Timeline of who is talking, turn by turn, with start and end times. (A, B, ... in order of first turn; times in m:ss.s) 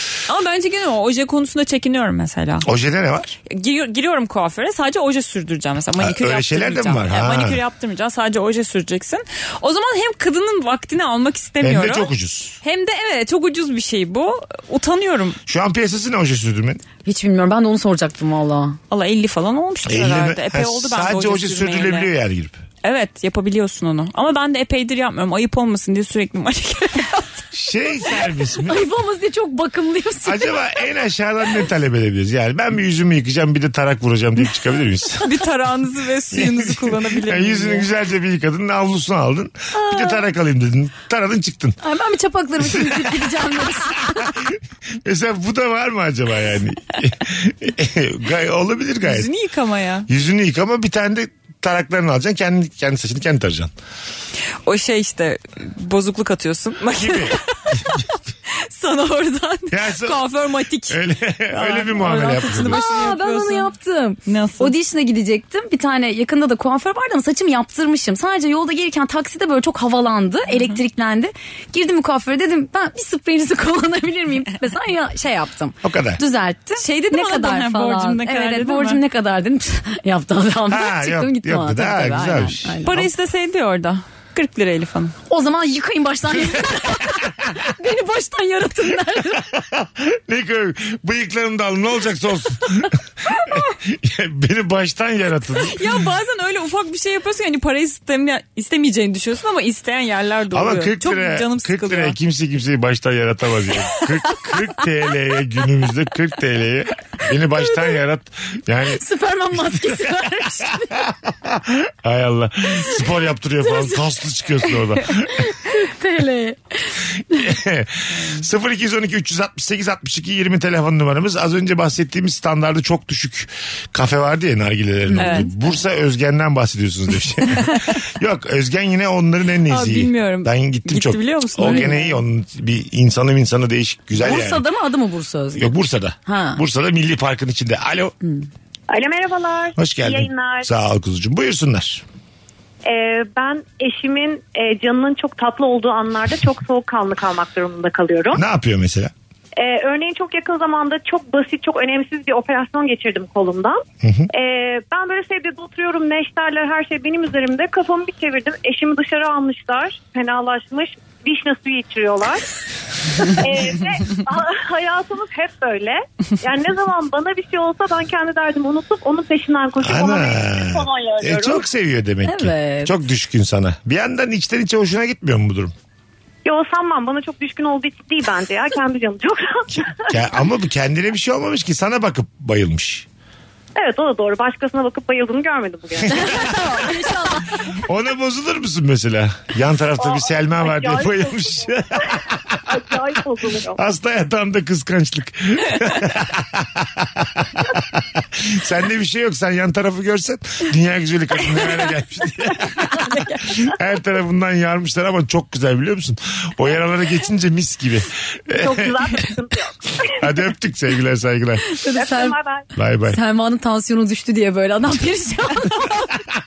0:00.3-0:02.7 A
0:02.6-0:03.3 B
0:03.5-0:12.1 A
0:06.0-0:07.6 B
0:11.6-0:12.6 B
0:12.6-0:15.4 A
0:15.5-0:16.8 B
0:17.0-0:18.8 C
0:18.9-0:22.1 A
0:19.8-0:22.6 B
0:22.8-0:27.4 A
0:27.5-0:28.8 B
0:28.6-0:30.8 C
0:30.2-0:35.3 B
0:35.2-0:37.9 A
0:36.3-0:41.8 B
0:39.7-0:40.2 C
0:41.8-0:44.3 C
0:42.6-0:43.3 B
0:43.9-0:49.3 B
0:49.0-0:50.1 A
0:50.1-0:53.7 B
0:54.6-1:03.7 A
0:56.9-0:58.1 B
0:59.7-1:00.2 B
1:00.9-1:02.8 B
1:02.6-1:23.0 C
1:04.2-1:04.7 A
1:15.8-1:16.2 B
1:16.8-1:19.0 A
1:20.7-1:23.1 B
1:22.8-1:25.1 A
1:25.3-1:29.5 C
1:27.1-1:27.5 B
1:29.4-1:36.0 B
1:35.6-1:42.2 A
1:40.5-1:49.0 B
1:48.9-1:51.1 C
1:49.5-1:55.7 B
1:55.2-1:57.4 C
1:57.3-2:14.6 B
2:05.1-2:05.5 C
2:05.2-2:05.5 A
2:09.7-2:12.0 A
2:11.6-2:12.1 C
2:14.2-2:15.7 C
2:15.6-2:18.1 B
2:16.2-2:16.6 C
2:18.9-2:20.7 D
2:19.8-2:22.0 B
2:22.8-2:28.4 D
2:28.3-2:29.1 B
2:29.6-2:42.4 D
2:34.0-2:34.3 B
2:43.2-2:51.6 D
2:49.8-2:55.7 B
2:52.2-2:53.0 C
2:56.4-3:00.3 D
3:00.1-3:03.1 B
3:03.8-3:06.7 D
3:06.1-3:07.6 C
3:07.7-3:12.8 B
3:10.0-3:13.8 D
3:13.7-3:29.2 B
3:28.5-3:30.3 D
3:30.0-3:31.8 B
3:31.7-3:32.4 C
3:31.9-3:32.7 D
3:32.7-3:33.2 B
3:33.1-3:36.2 C